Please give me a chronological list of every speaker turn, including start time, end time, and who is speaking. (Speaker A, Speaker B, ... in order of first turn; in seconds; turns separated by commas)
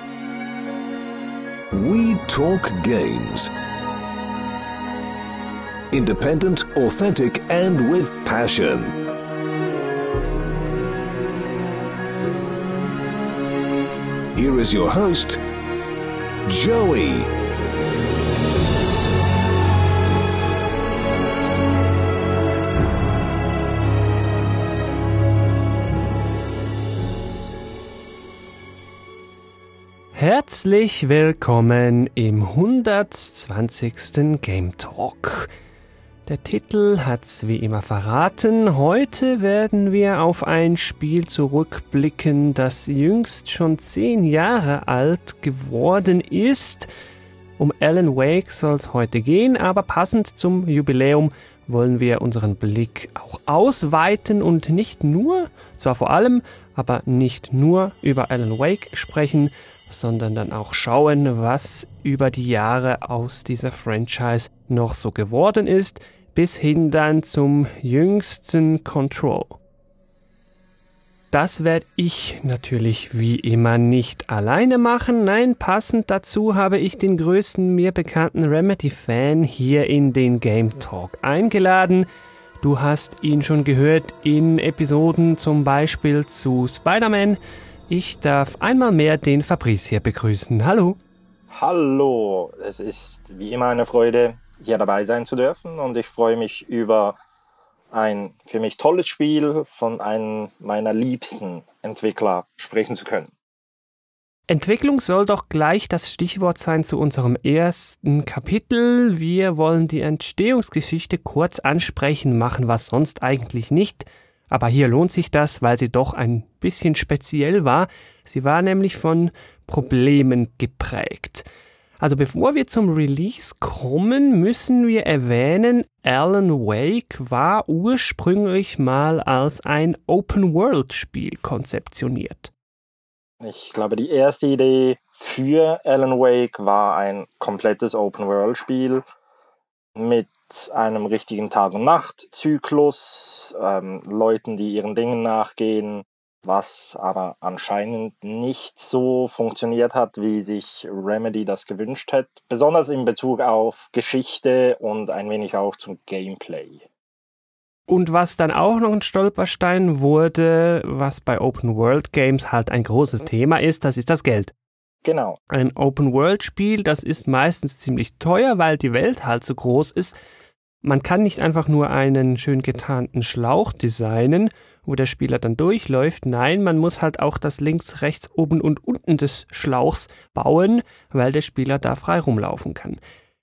Speaker A: 1.7-3.5, Speaker A: 5.9-9.0, Speaker A: 14.3-15.4, Speaker A: 16.4-17.3, Speaker B: 30.1-35.5, Speaker B: 36.2-46.9, Speaker B: 47.6-69.6, Speaker B: 71.3-82.0, Speaker B: 82.6-87.4, Speaker B: 87.9-91.0, Speaker C: 91.5-97.2, Speaker C: 97.9-103.3, Speaker B: 104.5-121.4, Speaker B: 122.0-132.5, Speaker C: 133.4-139.0, Speaker C: 139.9-156.8, Speaker B: 157.9-164.5, Speaker C: 165.0-165.4, Speaker B: 165.5-170.2, Speaker B: 170.8-183.0